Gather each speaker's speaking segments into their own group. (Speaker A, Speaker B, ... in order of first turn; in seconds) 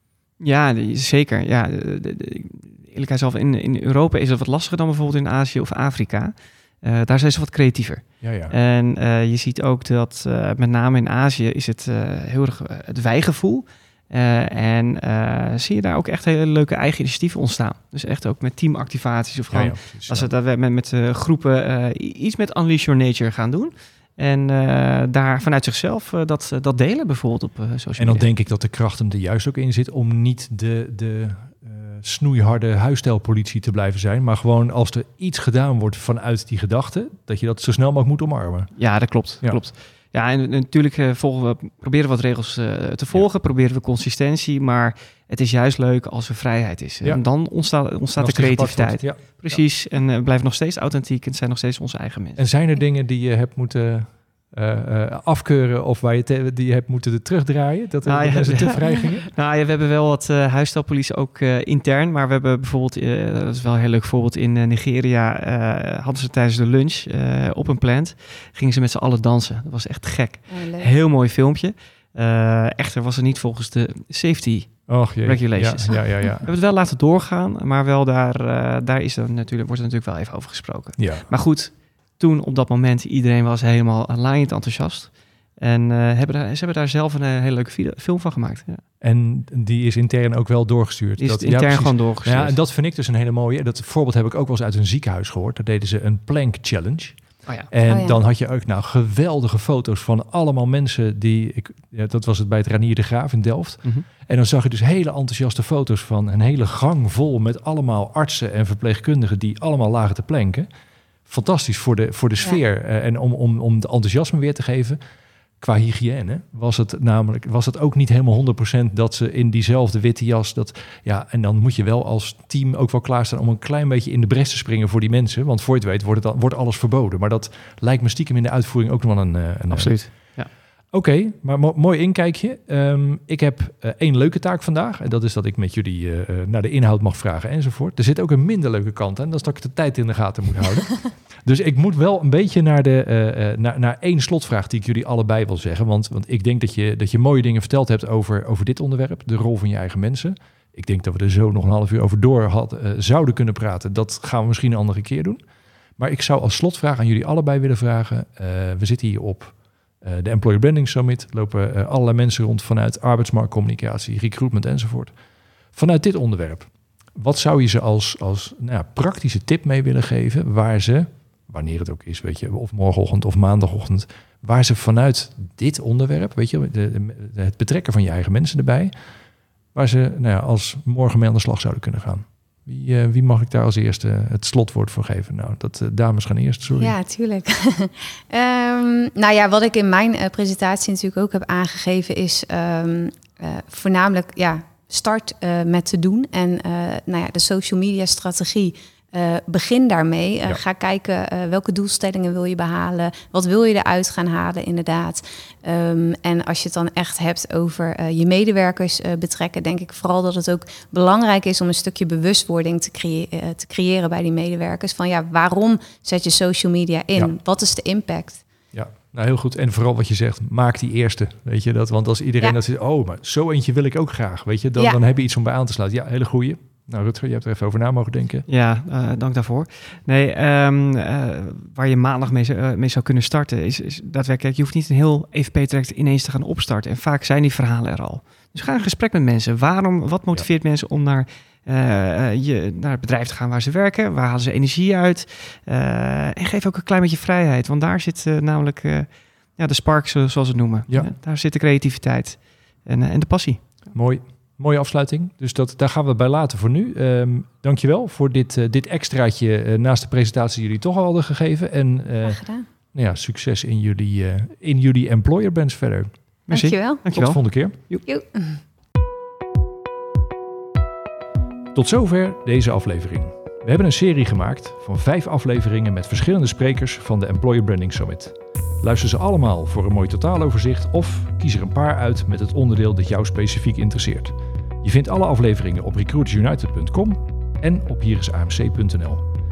Speaker A: 0.4-28.3, 38.8-52.4, 58.0-88.8, 91.2-92.6, 129.7-130.5, 228.5-253.7, 266.5-268.0
Speaker B: 8.2-8.6, 19.5-20.3, 28.0-38.8, 48.2-49.6, 52.4-59.3, 74.9-76.5, 81.0-81.3, 89.0-110.7, 111.3-115.0, 115.6-130.4, 130.9-155.4, 156.0-165.1, 165.7-178.9, 179.7-186.9, 218.7-228.5, 253.9-266.1, 267.1-267.8, 271.7-289.2
Speaker C: 70.5-70.9, 97.9-98.2, 186.8-218.4, 262.2-262.7, 266.5-267.0, 268.1-268.6